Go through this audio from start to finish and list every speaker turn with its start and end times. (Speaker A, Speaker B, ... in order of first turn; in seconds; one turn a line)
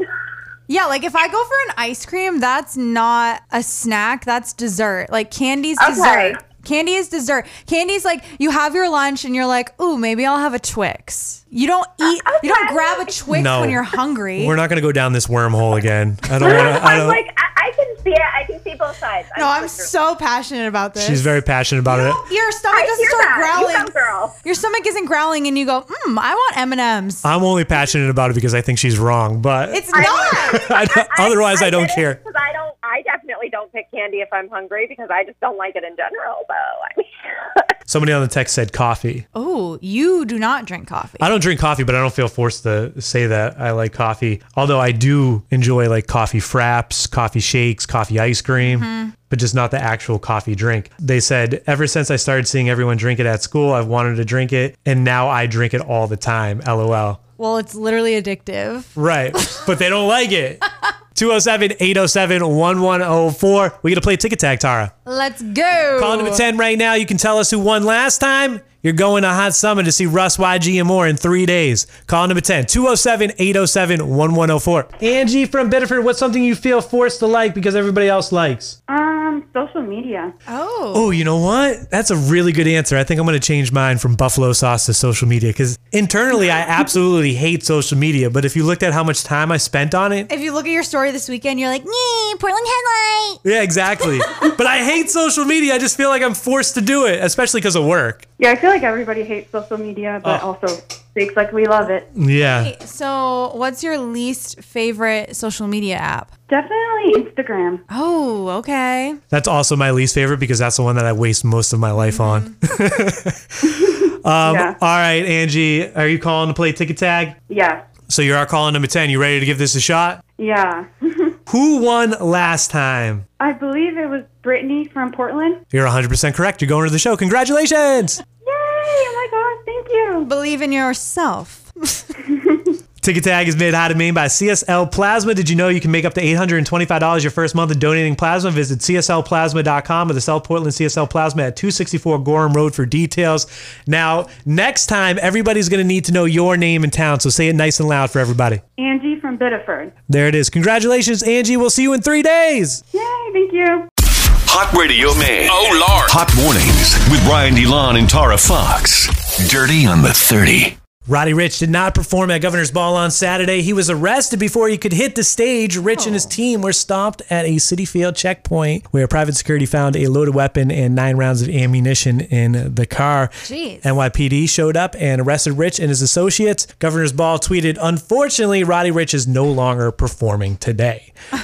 Speaker A: 0.7-14.6
Speaker B: 5.8-6.4
Speaker B: 12.0-13.2
Speaker C: 13.3-13.8
Speaker C: 14.4-17.2
Speaker B: 16.4-19.9
Speaker A: 19.4-21.3
Speaker C: 21.0-22.2
Speaker A: 21.9-23.9
Speaker B: 22.7-24.3
Speaker A: 24.4-27.3
Speaker C: 27.2-32.2
Speaker A: 29.7-30.7
Speaker B: 29.9-37.7
Speaker C: 37.9-39.3
Speaker A: 39.4-41.3
Speaker C: 41.2-57.2
Speaker A: 48.6-49.1
Speaker A: 57.4-59.6
Speaker C: 59.0-60.6
Speaker C: 61.1-64.9
Speaker A: 65.1-66.5
Speaker C: 66.0-78.8
Speaker D: 78.9-80.3
Speaker A: 80.5-81.1
Speaker C: 80.9-90.3
Speaker A: 90.3-93.4
Speaker C: 93.4-98.3
Speaker D: 98.4-102.1
Speaker C: 102.2-102.7
Speaker A: 102.4-106.3
Speaker D: 106.5-107.8
Speaker A: 107.9-109.2
Speaker C: 109.3-117.4
Speaker A: 112.1-112.5
Speaker D: 113.7-114.8
Speaker D: 117.5-117.8
Speaker C: 118.1-120.2
Speaker D: 120.4-121.4
Speaker C: 121.5-123.3
Speaker D: 123.4-125.6
Speaker C: 125.7-128.2
Speaker D: 128.4-130.3
Speaker A: 130.2-132.1
Speaker C: 133.0-148.6
Speaker D: 148.8-149.9
Speaker C: 150.1-152.8
Speaker D: 152.9-153.9
Speaker E: 154.5-160.8
Speaker C: 161.1-181.1
Speaker A: 165.9-166.3
Speaker A: 173.4-173.9